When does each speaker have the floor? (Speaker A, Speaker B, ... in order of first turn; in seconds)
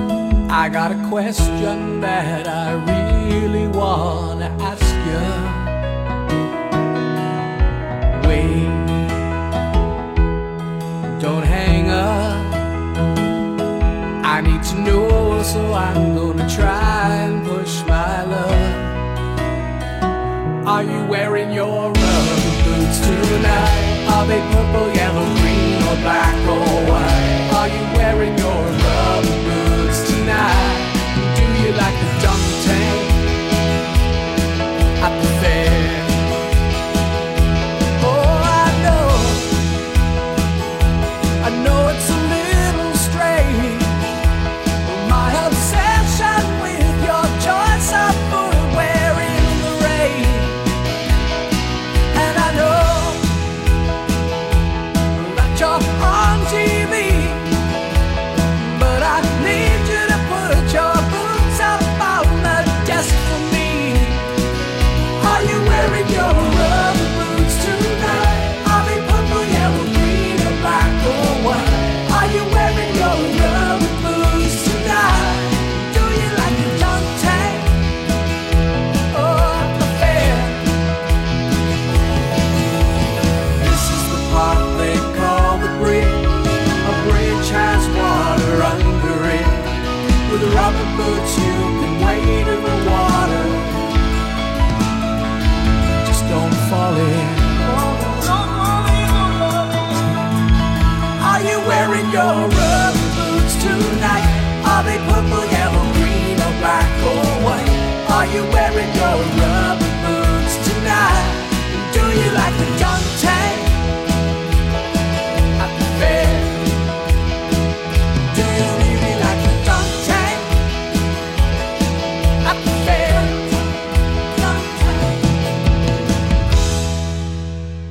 Speaker A: 0.5-5.8, 8.1-9.2, 11.2-12.7, 14.2-19.0, 20.6-33.4, 35.0-36.3, 38.0-39.5, 41.4-44.0, 44.8-50.6, 52.1-53.3, 55.1-57.6, 58.5-64.3, 65.2-77.9, 79.1-80.7, 83.6-93.9, 96.0-99.5, 101.2-113.9, 115.6-116.8, 118.3-120.5, 122.4-123.7, 124.3-125.3